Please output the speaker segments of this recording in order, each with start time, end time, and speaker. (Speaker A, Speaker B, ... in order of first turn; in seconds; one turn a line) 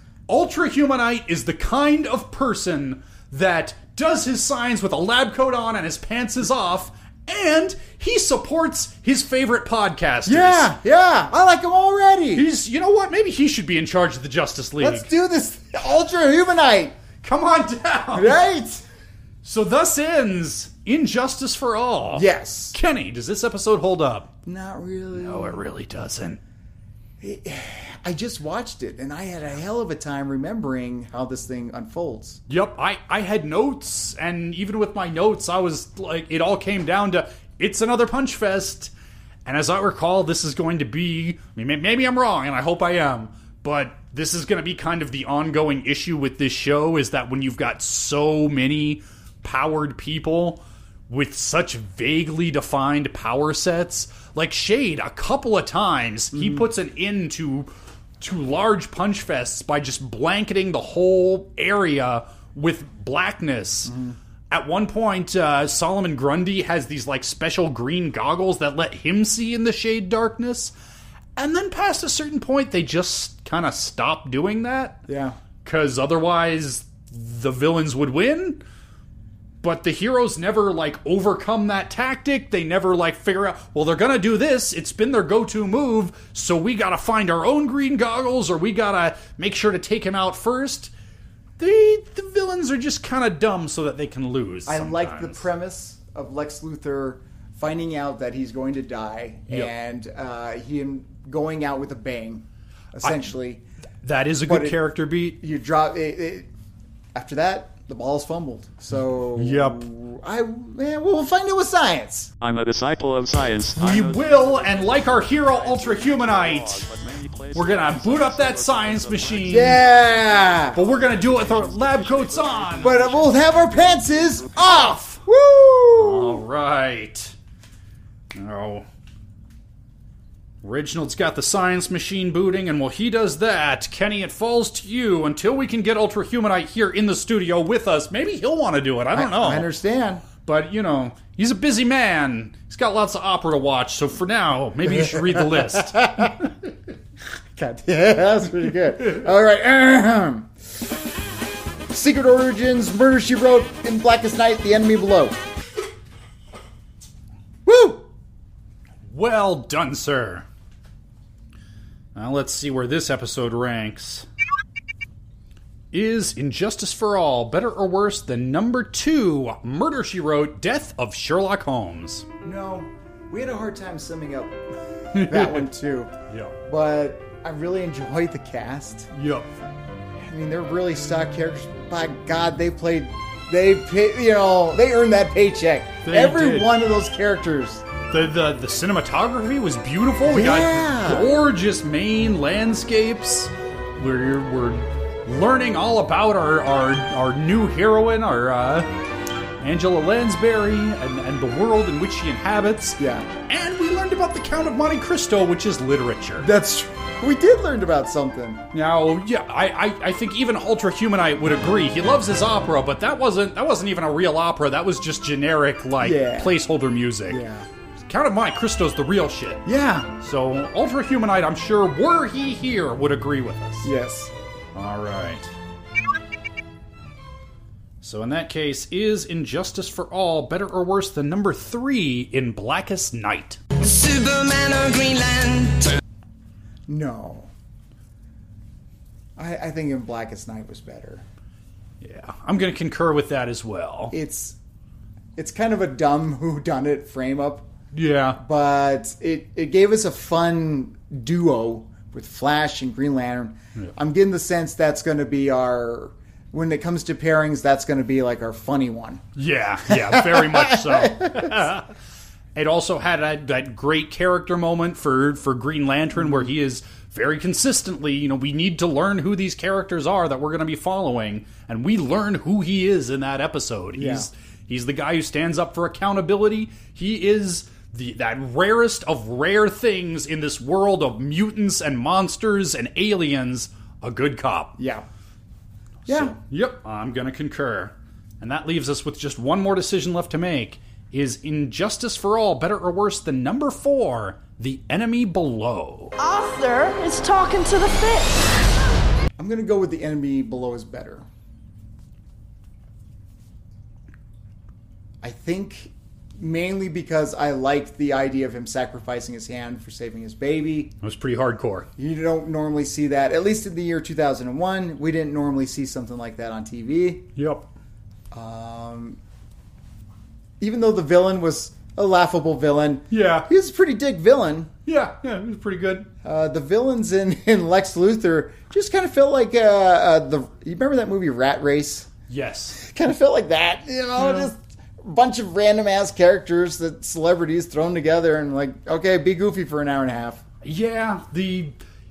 Speaker A: 0.3-10.7
Speaker B: 10.3-12.5
Speaker A: 12.3-15.1
Speaker B: 14.8-17.0
Speaker A: 17.2-18.4
Speaker B: 18.1-18.8
Speaker A: 19.4-24.3
Speaker B: 22.1-22.8
Speaker B: 24.4-25.6
Speaker A: 25.1-26.4
Speaker B: 27.2-32.4
Speaker A: 32.5-38.9
Speaker A: 39.5-64.0
Speaker B: 56.3-56.6
Speaker B: 63.9-64.2
Speaker A: 64.5-70.7
Speaker A: 71.4-75.1
Speaker B: 75.1-75.4
Speaker A: 75.6-78.6
Speaker A: 79.6-90.9
Speaker A: 91.6-95.4
Speaker B: 94.7-103.6
Speaker A: 103.0-103.3
Speaker A: 104.0-105.4
Speaker B: 104.5-104.8
Speaker B: 105.4-106.5
Speaker B: 107.1-112.3
Speaker A: 109.3-109.8
Speaker C: 112.4-124.6
Speaker A: 113.8-116.8
Speaker A: 117.5-119.9
Speaker B: 119.5-120.8
Speaker A: 120.7-123.1
Speaker B: 122.8-126.4
Speaker A: 124.6-125.2
Speaker A: 125.9-127.3
Speaker A: 128.3-128.9
Speaker A: 130.6-139.7
Speaker B: 139.1-140.3
Speaker A: 140.4-146.3
Speaker B: 144.9-146.5
Speaker B: 147.6-150.5
Speaker B: 151.9-155.4
Speaker B: 157.7-158.1
Speaker A: 159.1-160.5
Speaker A: 162.2-164.3
Speaker A: 165.9-172.3
Speaker B: 172.4-174.6
Speaker A: 175.1-175.7
Speaker B: 175.1-176.1
Speaker A: 176.3-176.5
Speaker B: 176.7-179.1
Speaker A: 179.1-179.5
Speaker B: 180.2-187.9
Speaker A: 186.0-186.8
Speaker A: 188.1-198.9
Speaker B: 190.3-191.4
Speaker A: 199.6-206.5
Speaker B: 203.0-203.3
Speaker B: 206.4-208.6
Speaker A: 208.7-217.4
Speaker B: 216.0-216.6
Speaker B: 217.3-217.7
Speaker A: 218.1-219.7
Speaker B: 219.7-220.1
Speaker A: 220.2-223.9
Speaker B: 223.8-224.3
Speaker A: 224.8-225.5
Speaker A: 228.0-233.6
Speaker D: 233.8-236.0
Speaker B: 236.9-237.5
Speaker B: 239.4-241.2
Speaker A: 242.0-244.2
Speaker B: 244.1-244.6
Speaker B: 245.4-247.7
Speaker A: 247.9-248.4
Speaker B: 248.4-259.2
Speaker A: 259.4-261.9
Speaker B: 259.9-261.7
Speaker A: 262.6-284.8
Speaker B: 266.2-266.5
Speaker B: 273.9-274.3
Speaker B: 284.8-285.1
Speaker A: 286.1-296.1
Speaker B: 286.1-286.4
Speaker E: 296.2-298.6
Speaker B: 299.4-301.2
Speaker B: 305.2-310.9
Speaker A: 311.0-311.9
Speaker B: 312.0-317.3
Speaker A: 317.4-317.7
Speaker B: 318.3-319.2
Speaker B: 320.6-324.7
Speaker A: 323.1-323.5
Speaker A: 324.9-326.1
Speaker B: 326.2-332.1
Speaker A: 332.3-332.8
Speaker B: 332.7-340.4
Speaker A: 334.2-334.5
Speaker A: 340.6-341.8